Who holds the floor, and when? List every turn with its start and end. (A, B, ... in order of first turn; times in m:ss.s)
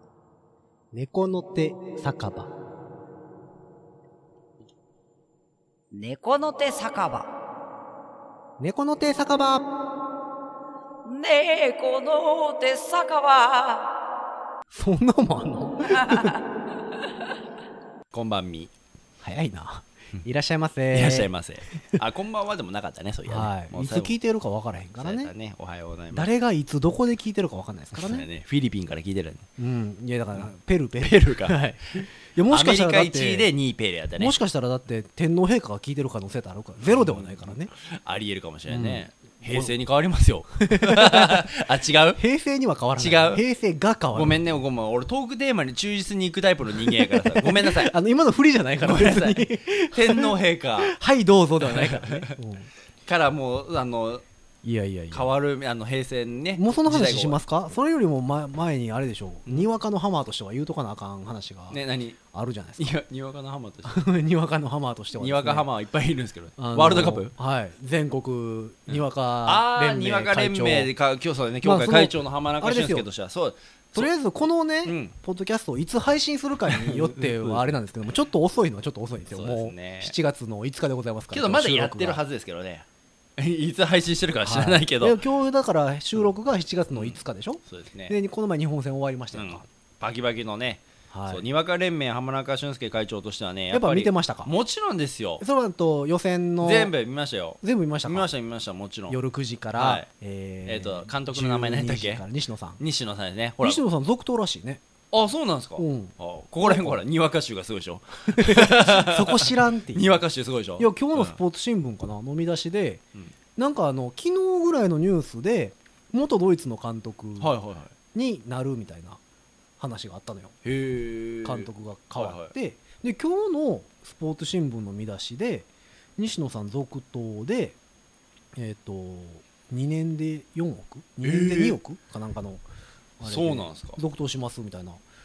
0:00.9-0:02.5 A
0:05.9-0:07.3 B
0:08.6-0:09.7 A
0:11.0-0:13.9 B
0:14.7-0:16.4 A
0:16.0-0:16.3 B
0:18.1-0:18.7 C
0:19.2-0:22.0 A
0:20.9-0:24.2 C
0:23.3-0:25.3 A
0:25.0-0:26.3 C
0:26.1-0:28.2 A
0:27.9-0:29.4 C
0:29.6-0:33.5 A
0:31.0-0:34.3 C
0:34.2-0:37.7 A
0:36.8-0:42.2 C
0:38.7-0:39.7 A
0:40.6-0:41.4 A
0:42.2-0:44.4 A
0:43.0-0:43.4 C
0:44.1-0:47.9 C
0:46.8-0:52.7 A
0:48.8-0:50.9 C
0:51.6-0:52.3 C
0:53.0-0:54.2 C
0:54.6-0:55.3 A
0:55.1-0:57.4 C
0:56.5-1:01.8 A
1:01.7-1:02.2 C
1:02.3-1:02.9 A
1:02.8-1:04.0 C
1:03.8-1:05.7 A
1:05.1-1:07.3 C
1:06.6-1:10.9 A
1:08.9-1:14.1 C
1:11.6-1:13.0 A
1:13.9-1:22.2 A
1:14.8-1:15.1 C
1:16.7-1:17.7 C
1:19.3-1:20.1 C
1:21.3-1:22.8 C
1:23.4-1:25.2 C
1:24.4-1:29.6 A
1:26.9-1:28.2 C
1:29.3-1:35.4 C
1:31.1-1:31.4 A
1:33.7-1:34.5 A
1:35.4-1:36.9 A
1:36.6-1:39.2 C
1:37.6-1:38.3 A
1:39.1-1:42.8 A
1:39.8-1:40.1 C
1:40.6-1:42.2 C
1:42.8-1:43.8 C
1:43.6-1:44.8 A
1:45.1-1:51.4 C
1:45.8-1:47.0 A
1:48.3-1:50.2 A
1:50.8-1:53.0 A
1:53.6-1:57.5 A
1:57.4-1:57.9 C
1:58.1-1:59.2 A
1:59.8-2:00.6 A
2:00.6-2:02.5 C
2:01.4-2:07.8 A
2:08.6-2:12.6 A
2:11.2-2:11.8 C
2:13.2-2:15.0 A
2:13.2-2:14.0 C